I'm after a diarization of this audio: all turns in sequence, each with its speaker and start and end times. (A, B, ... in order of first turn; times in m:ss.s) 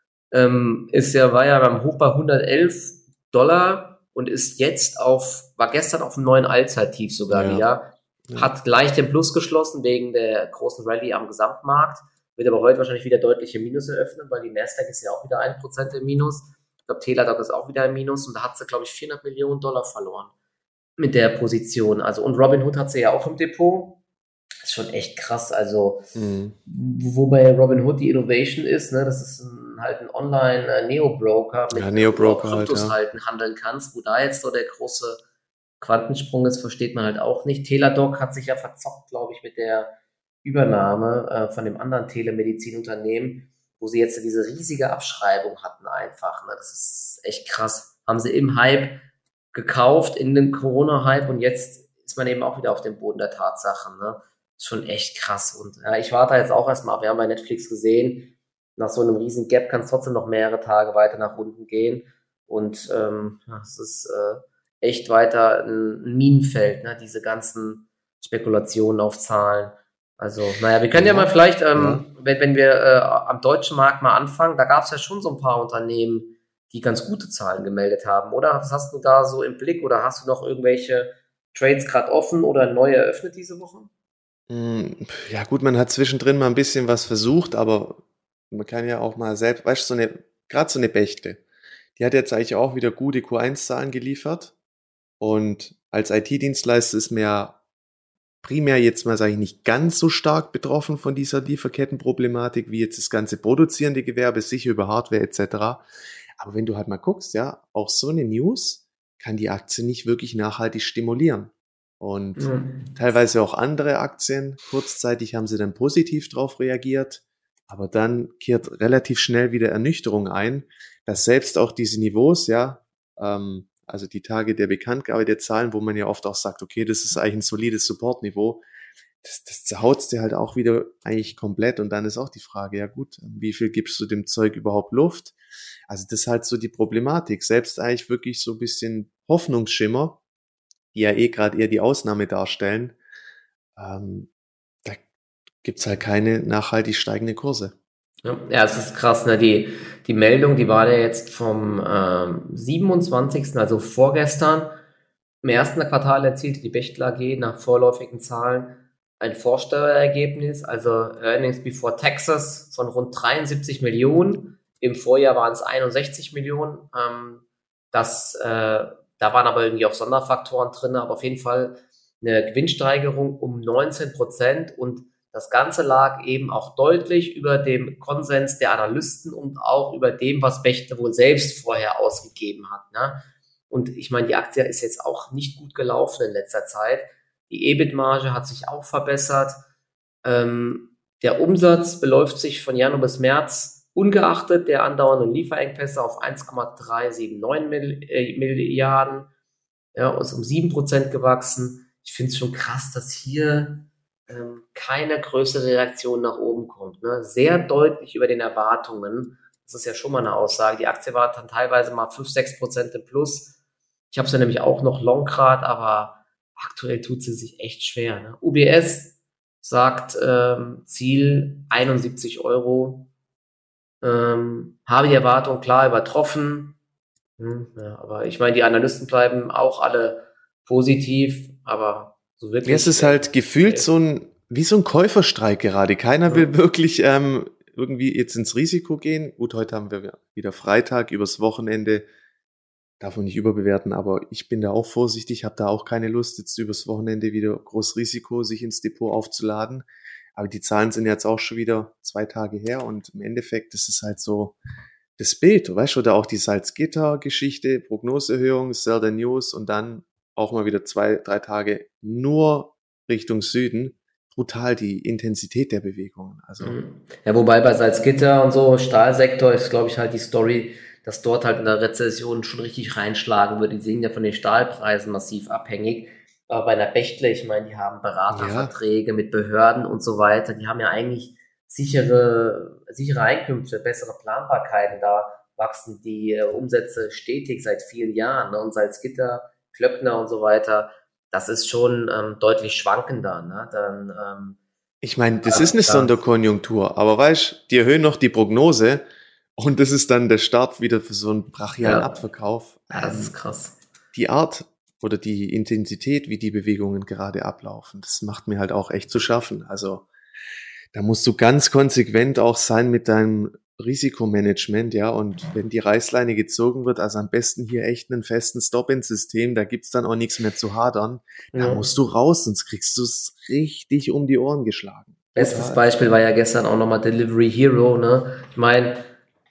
0:00.3-0:20.3 A
0:07.3-0:07.6 B
0:21.0-0:24.0 A
0:24.6-0:26.1 A
0:26.1-0:26.6 B
0:26.6-0:35.2 A
0:31.7-0:33.0 B
0:35.8-0:39.9 A
0:40.4-0:49.0 A
0:49.5-1:23.9 A
1:10.9-1:12.0 B
1:24.5-1:31.4 B
1:32.0-1:34.5 B
1:35.2-1:37.6 B
1:38.4-1:45.8 B
1:46.4-2:08.6 B
1:52.4-1:52.9 A
2:09.2-2:15.3 B
2:15.9-2:20.2 B
2:20.9-2:23.0 B
2:23.8-2:24.3 B
2:25.6-2:27.7 B
2:28.2-2:34.8 A
2:35.4-3:09.6 A
3:10.2-3:19.3 A
3:19.9-3:33.5 A
3:34.1-3:43.1 A
3:44.0-3:46.8 A
3:47.4-3:53.9 A
3:52.6-4:02.0 B
3:56.2-3:56.5 A
4:03.0-4:14.6 B
4:15.2-4:26.8 B
4:26.6-4:54.6 A
4:38.3-4:38.7 B
4:55.0-4:59.0 B
4:55.4-4:56.2 A
4:59.6-5:03.3 B
5:01.8-5:02.2 A
5:02.9-5:03.8 A
5:04.1-5:10.1 B
5:10.9-5:25.8 B
5:21.5-5:21.9 A
5:25.3-5:29.1 A